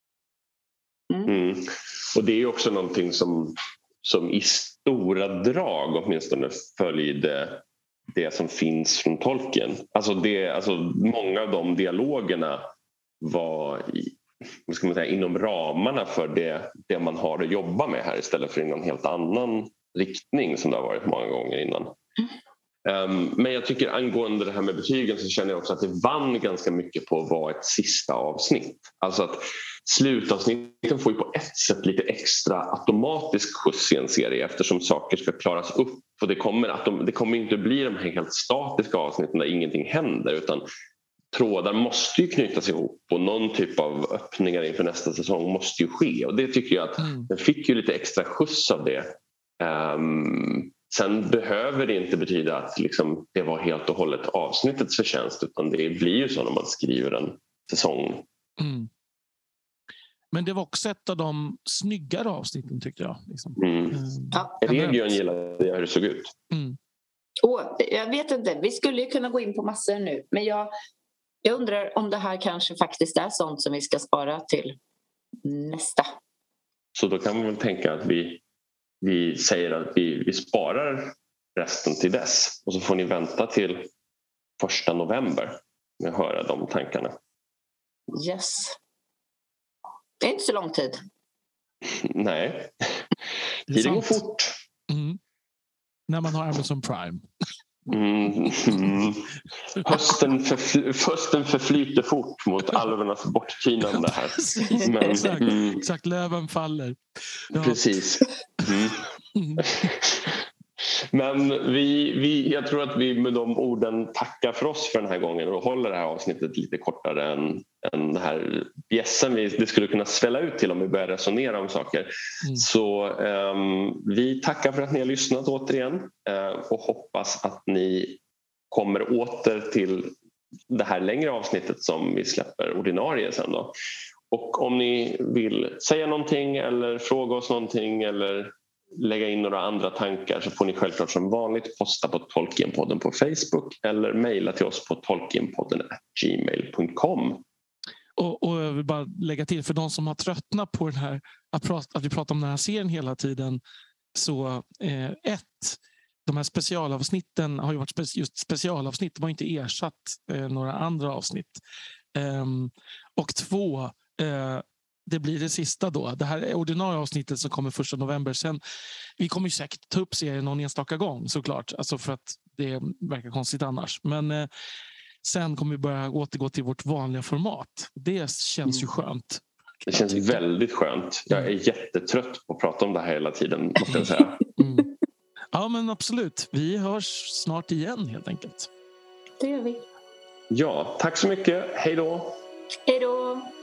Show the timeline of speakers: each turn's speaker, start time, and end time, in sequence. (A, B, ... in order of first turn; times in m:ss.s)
0:01.1-0:01.4 A
0:01.3-0:12.6 B
0:13.2-0:21.9 B
0:22.8-0:40.6 B
0:41.3-0:49.1 B
0:47.0-0:47.3 C
0:49.6-0:58.2 B
0:58.6-0:58.9 C
1:00.3-1:05.1 C
1:03.6-1:04.0 B
1:04.6-1:06.3 B
1:06.5-1:06.8 C
1:07.4-1:10.7 A
1:11.4-1:14.8 A
1:15.4-1:16.1 A
1:16.9-1:18.4 B
1:19.0-1:23.9 B
1:24.6-1:27.1 B
1:28.1-1:28.8 A
1:30.2-1:31.0 A
1:31.8-1:33.0 B
1:33.7-1:34.2 C
1:33.7-1:34.6 B
1:34.9-1:35.2 C
1:36.1-1:37.2 C
1:37.9-1:39.3 B
1:38.7-1:39.1 C
1:39.8-1:45.8 B
1:43.9-1:47.0 C
1:47.5-1:47.8 C
1:47.5-1:49.0 B
1:49.3-1:49.9 C
1:49.6-1:50.4 B
1:51.1-2:08.2 B
2:08.7-2:10.1 B
2:10.7-2:13.7 B
2:14.3-2:27.4 B
2:28.2-2:33.6 C
2:34.1-2:41.6 C
2:42.1-2:48.6 C
2:49.2-2:54.5 C
2:55.2-3:00.4 C
2:59.9-3:04.4 B
3:03.9-3:04.9 C
3:05.5-3:08.7 C
3:09.4-3:09.8 A
3:10.5-3:12.4 B
3:12.9-3:13.5 A